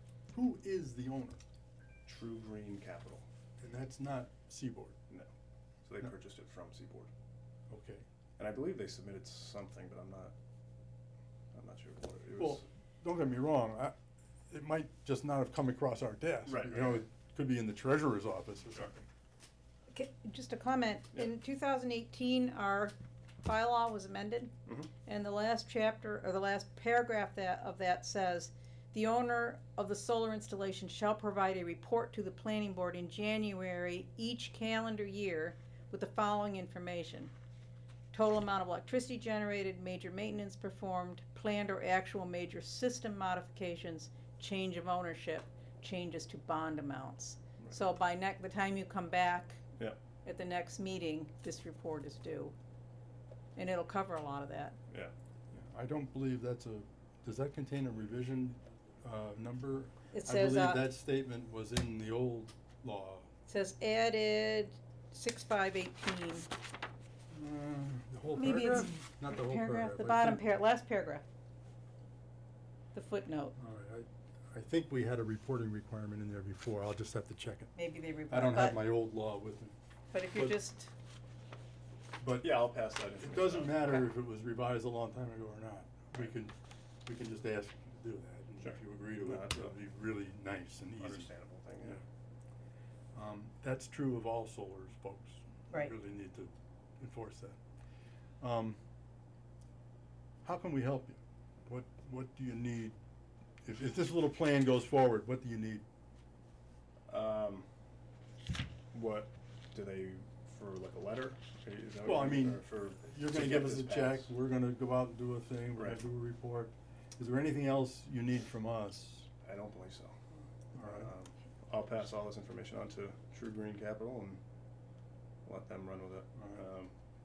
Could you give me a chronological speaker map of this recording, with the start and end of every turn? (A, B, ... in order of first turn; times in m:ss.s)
0:00.3-0:01.4 A
0:02.0-0:03.2 B
0:03.6-0:05.0 A
0:05.8-0:07.1 B
0:07.7-0:08.0 A
0:08.4-0:10.3 B
0:11.5-0:12.6 B
0:12.4-0:13.9 A
0:14.5-0:19.0 A
0:16.4-0:17.0 B
0:19.9-0:24.5 C
0:25.0-0:37.3 C
0:38.1-0:49.6 C
0:50.2-0:52.5 C
0:53.5-0:54.8 C
0:55.5-1:03.3 A
1:00.1-1:00.9 C
1:03.5-1:06.5 C
1:07.3-1:10.4 A
1:08.4-1:11.2 C
1:12.9-1:13.5 C
1:13.6-1:17.7 A
1:17.7-1:18.8 C
1:18.3-1:19.8 A
1:20.1-1:20.9 C
1:22.2-1:22.7 A
1:22.4-1:24.0 B
1:23.2-1:26.5 A
1:27.0-1:31.3 A
1:28.6-1:29.7 B
1:31.0-1:32.0 B
1:33.1-1:37.6 A
1:38.4-1:38.8 A
1:40.4-1:43.0 A
1:43.6-1:45.8 A
1:47.1-1:47.7 B
1:48.9-1:54.3 B
1:52.0-1:59.3 A
1:59.4-2:00.2 B
2:00.7-2:01.1 A
2:00.8-2:04.4 B
2:05.4-2:06.9 B
2:06.4-2:06.6 A